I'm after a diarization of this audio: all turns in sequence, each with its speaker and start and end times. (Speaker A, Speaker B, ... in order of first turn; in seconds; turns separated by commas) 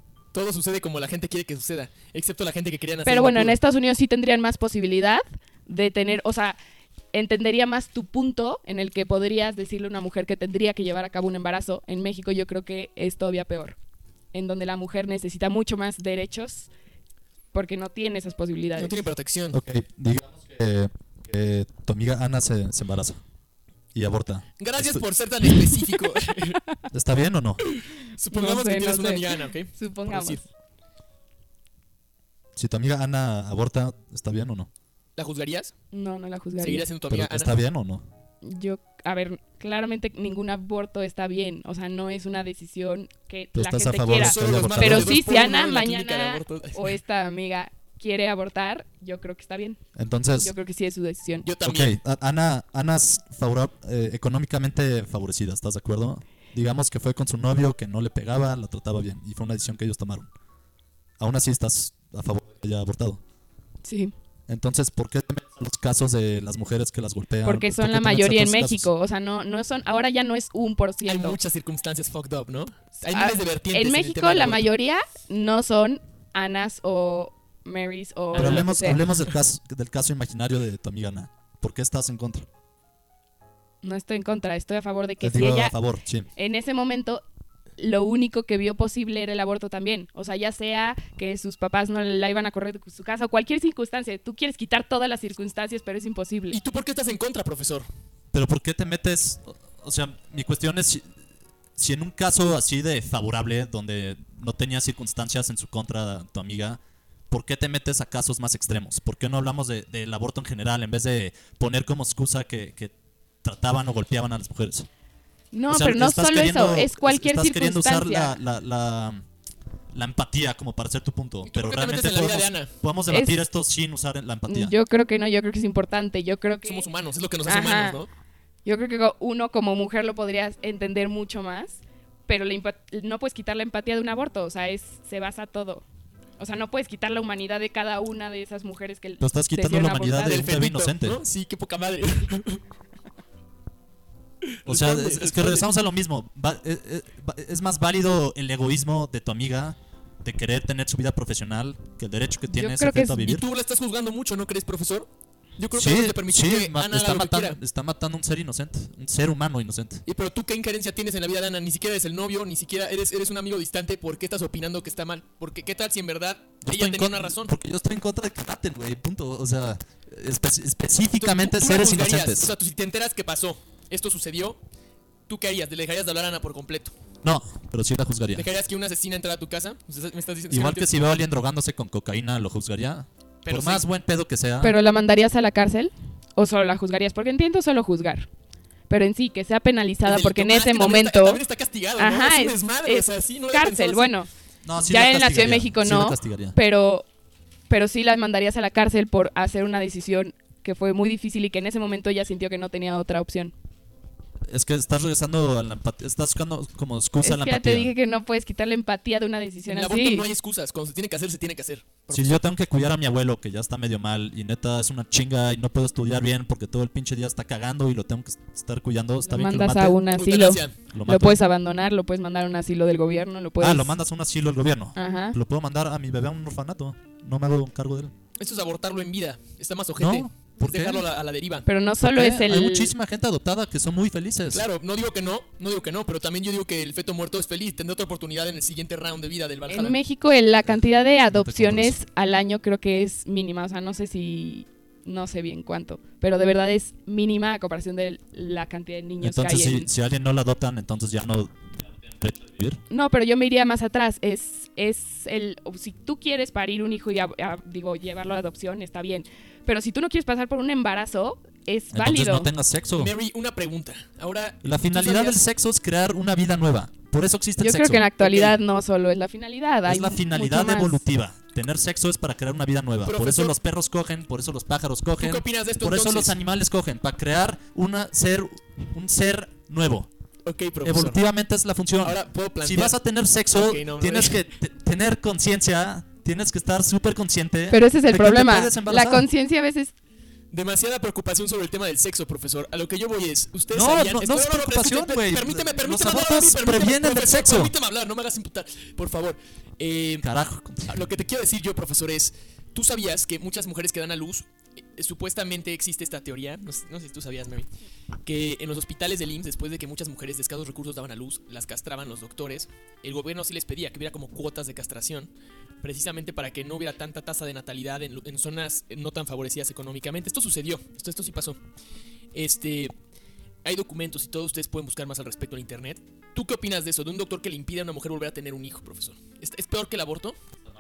Speaker A: 0.3-3.6, Speaker B: 3.0-6.6, Speaker B: 7.1-13.8, Speaker B: 14.3-16.7, Speaker B: 17.5-18.9, Speaker A: 18.8-19.6, Speaker C: 19.5-23.2, Speaker C: 23.9-25.0, Speaker A: 24.6-26.6, Speaker C: 26.9-27.6, Speaker A: 27.8-30.4, Speaker B: 28.3-30.4, Speaker C: 32.6-34.7, Speaker A: 35.2-35.7, Speaker B: 35.9-36.9, Speaker A: 36.6-37.5, Speaker C: 37.1-38.0, Speaker B: 38.4-49.8, Speaker C: 43.5-45.2, Speaker A: 44.2-47.0, Speaker C: 50.0-50.5, Speaker B: 50.4-51.5, Speaker A: 51.4-52.0, Speaker C: 51.6-60.3, Speaker C: 61.2-63.2, Speaker B: 63.8-64.1, Speaker C: 64.5-68.9, Speaker B: 67.4-71.4, Speaker A: 71.0-74.7, Speaker B: 73.0-79.0, Speaker C: 78.3-82.5, Speaker B: 83.8-85.7, Speaker C: 85.2-86.3, Speaker B: 86.4-87.2, Speaker B: 87.8-96.6, Speaker A: 96.5-97.9, Speaker C: 98.3-101.1, Speaker C: 101.8-114.9, Speaker B: 115.5-118.4, Speaker C: 115.7-119.2, Speaker C: 119.9-124.7, Speaker A: 121.5-122.7, Speaker B: 123.1-123.4, Speaker B: 124.5-126.9, Speaker A: 126.6-128.1, Speaker B: 127.5-128.0, Speaker B: 128.7-135.8, Speaker B: 136.4-140.5, Speaker C: 139.2-141.2, Speaker A: 140.2-142.6, Speaker A: 144.5-145.7, Speaker C: 144.7-153.4, Speaker B: 152.5-153.2, Speaker A: 153.2-157.6, Speaker C: 155.7-160.0, Speaker A: 160.1-167.5, Speaker C: 166.6-172.5, Speaker A: 171.2-174.6, Speaker A: 175.3-176.9, Speaker C: 177.2-178.5, Speaker A: 178.4-181.0, Speaker C: 180.5-184.7, Speaker A: 183.4-183.8, Speaker B: 184.6-188.3, Speaker B: 188.9-191.4, Speaker A: 190.1-194.1, Speaker B: 192.0-197.1, Speaker C: 194.6-196.6, Speaker B: 197.7-203.5, Speaker C: 204.5-207.9, Speaker B: 207.2-210.3, Speaker A: 209.7-212.4, Speaker C: 212.1-220.0, Speaker B: 219.3-223.9, Speaker A: 220.1-220.8, Speaker C: 220.9-221.4, Speaker C: 223.6-228.1, Speaker B: 225.0-225.4, Speaker A: 228.4-231.7, Speaker C: 230.0-231.1, Speaker B: 231.7-232.9, Speaker C: 232.0-234.7, Speaker A: 234.5-240.0, Speaker B: 239.7-249.9, Speaker C: 241.3-242.0, Speaker C: 249.2-252.8, Speaker B: 252.9-262.5, Speaker C: 261.9-263.1, Speaker A: 263.0-265.4, Speaker C: 264.6-268.1, Speaker B: 267.6-271.0, Speaker A: 268.2-268.5, Speaker C: 269.9-280.1, Speaker A: 273.1-273.6, Speaker A: 275.2-276.4, Speaker A: 280.4-281.2, Speaker C: 280.8-289.3, Speaker A: 282.0-282.9, Speaker A: 283.5-284.4, Speaker B: 287.7-289.9, Speaker A: 290.5-300.3, Speaker C: 293.7-297.8, Speaker C: 300.2-301.1, Speaker A: 300.9-307.7, Speaker A: 308.3-315.3, Speaker A: 315.8-321.6, Speaker A: 322.3-322.9, Speaker A: 323.6-330.4